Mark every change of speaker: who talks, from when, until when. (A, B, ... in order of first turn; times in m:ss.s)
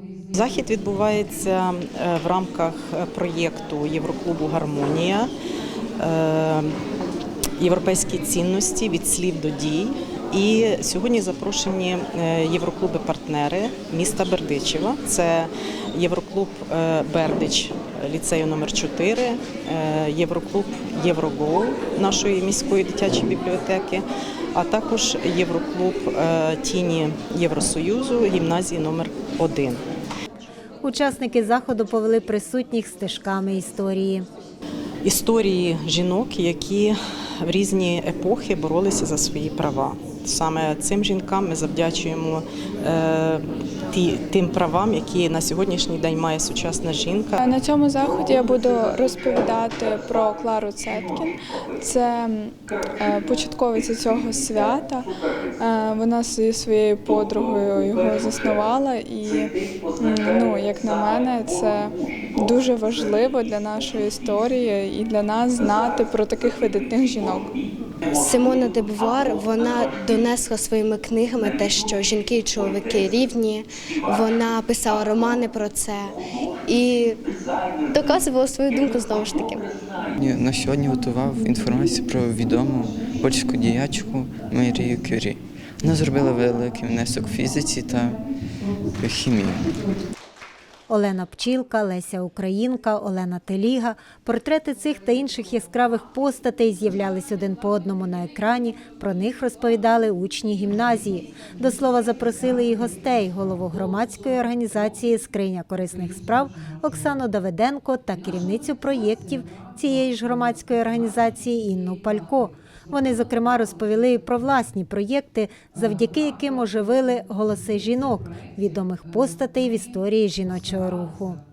0:00.3-0:05.3 A
0:06.0-0:06.7 A
0:07.6-0:24.0 A
0:24.5-0:29.8 A
0:30.8-0:34.3 B
0:35.0-0:47.4 A
0:47.4-1:07.6 C
1:08.1-1:17.2 D
1:17.9-1:19.7 D
1:20.2-1:28.2 E
1:28.8-1:29.8 E
1:30.9-2:01.4 B